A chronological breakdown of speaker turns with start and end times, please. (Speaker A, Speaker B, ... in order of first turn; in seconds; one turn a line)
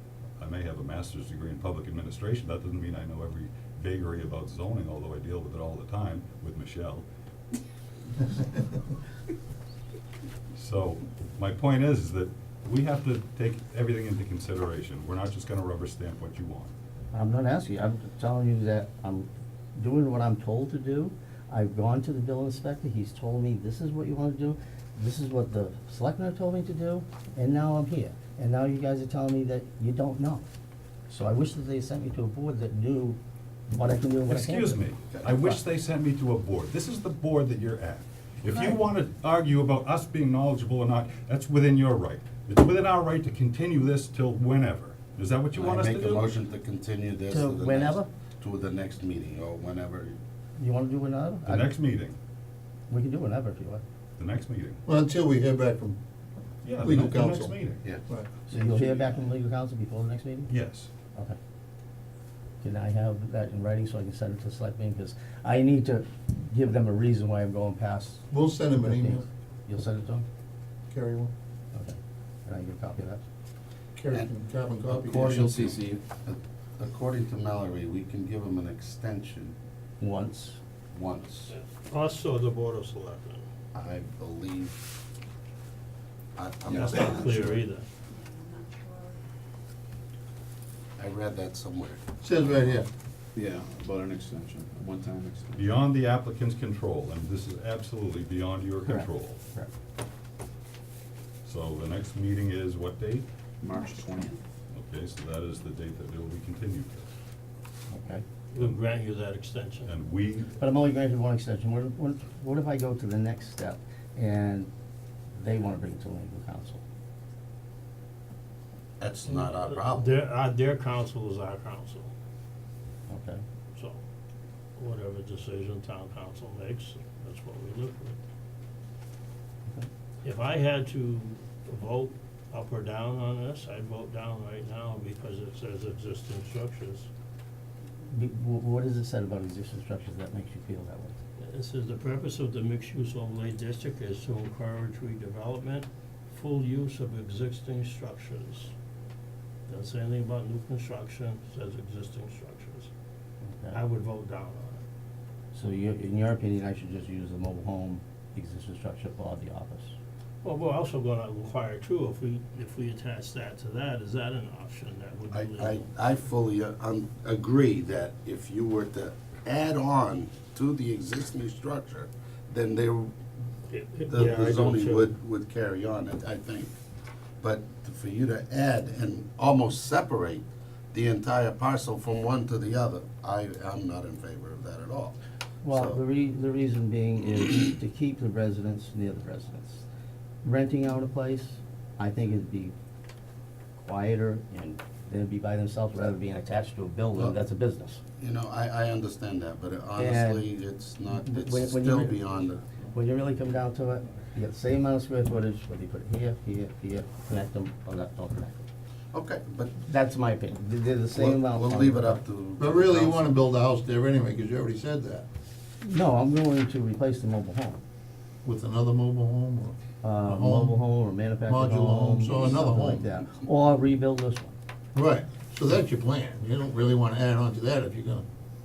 Speaker A: 0.4-7.1
Speaker A: 10.5-16.7
Speaker B: 17.1-30.4
Speaker B: 31.1-33.2
Speaker B: 33.7-35.6
Speaker A: 34.3-46.3
Speaker B: 38.5-38.8
Speaker C: 45.5-50.2
Speaker B: 47.3-48.1
Speaker B: 50.6-51.7
Speaker A: 51.5-52.2
Speaker B: 52.9-53.8
Speaker A: 54.2-54.8
Speaker D: 54.9-56.0
Speaker A: 56.6-57.8
Speaker D: 56.8-57.5
Speaker D: 58.1-58.9
Speaker B: 58.5-60.5
Speaker A: 60.5-60.9
Speaker B: 62.6-68.2
Speaker D: 68.3-69.2
Speaker B: 68.8-70.2
Speaker D: 70.9-71.3
Speaker B: 71.7-73.2
Speaker D: 74.0-75.6
Speaker C: 74.9-79.5
Speaker E: 75.0-76.1
Speaker B: 80.0-80.6
Speaker C: 80.9-81.6
Speaker F: 81.5-83.5
Speaker C: 83.7-84.9
Speaker C: 86.4-87.7
Speaker F: 86.7-87.9
Speaker E: 86.7-87.0
Speaker C: 91.0-92.7
Speaker D: 92.2-92.9
Speaker E: 93.3-95.7
Speaker A: 95.5-99.4
Speaker B: 98.9-99.7
Speaker A: 101.4-103.3
Speaker E: 103.6-104.4
Speaker A: 104.7-107.1
Speaker B: 107.9-108.2
Speaker F: 108.5-109.9
Speaker A: 109.9-110.5
Speaker B: 110.6-114.7
Speaker B: 115.3-116.8
Speaker C: 119.0-120.2
Speaker F: 119.3-122.1
Speaker B: 123.1-123.4
Speaker F: 123.8-124.0
Speaker F: 124.8-128.2
Speaker F: 130.2-137.1
Speaker B: 138.1-141.1
Speaker F: 141.4-148.7
Speaker F: 149.7-152.9
Speaker B: 153.4-153.8
Speaker F: 153.7-154.8
Speaker B: 155.5-160.0
Speaker F: 160.4-165.9
Speaker C: 165.3-173.1
Speaker F: 173.7-175.1
Speaker C: 174.1-176.7
Speaker C: 177.4-185.2
Speaker B: 185.6-189.8
Speaker C: 185.7-186.0
Speaker B: 190.4-192.7
Speaker B: 193.8-198.0
Speaker C: 198.2-202.6
Speaker B: 200.0-200.5
Speaker B: 201.1-202.2
Speaker B: 202.9-208.7
Speaker C: 209.1-209.8
Speaker B: 209.8-212.2
Speaker C: 211.2-213.3
Speaker D: 212.6-215.3
Speaker B: 215.8-217.8
Speaker D: 218.4-220.8
Speaker B: 220.0-224.6
Speaker D: 221.5-223.0
Speaker D: 224.9-228.3